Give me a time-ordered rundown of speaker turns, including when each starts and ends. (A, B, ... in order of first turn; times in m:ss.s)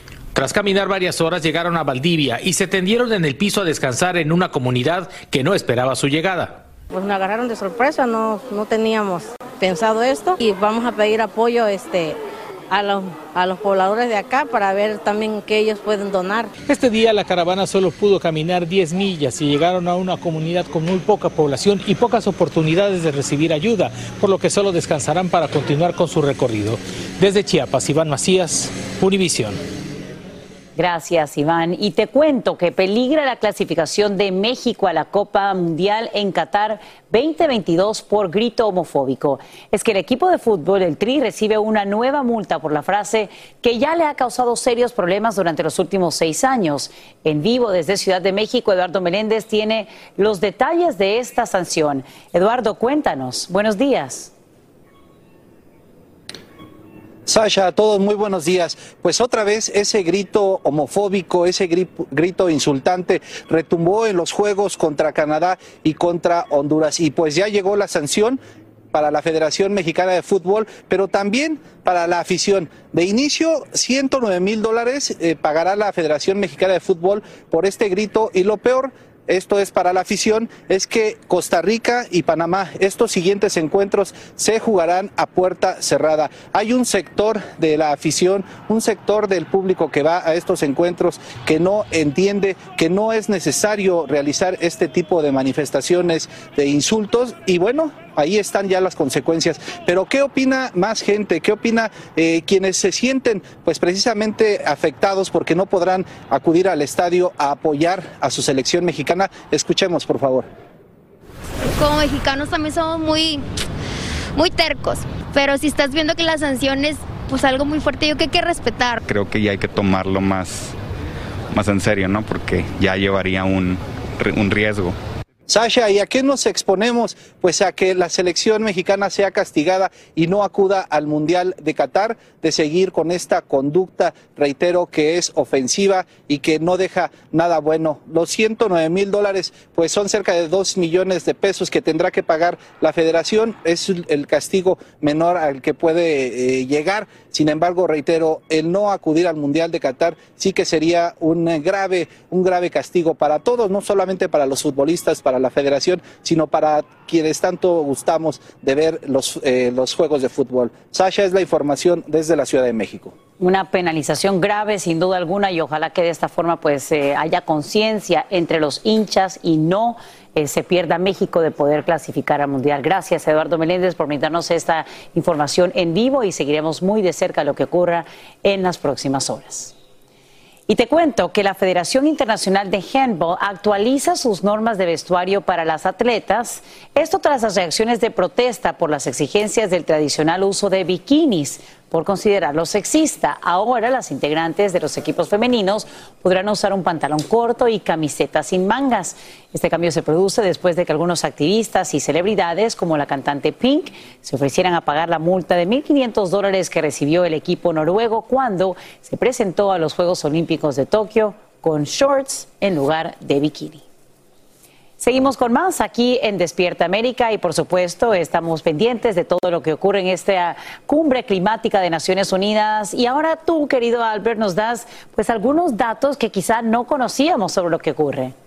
0:00.3-0:06.6 A
0:06.9-0:12.2 B
0:12.7-0:16.5 B
0:16.7-0:29.6 A
0:30.8-0:54.3 C
0:57.2-1:08.4 D
1:08.9-1:50.5 D
1:51.8-1:53.4 E
1:54.4-1:59.0 E
1:59.1-2:00.7 F
2:01.5-2:04.9 F
2:05.5-2:43.1 D
2:43.4-2:59.7 C
3:00.7-3:33.8 C
3:35.0-3:48.3 C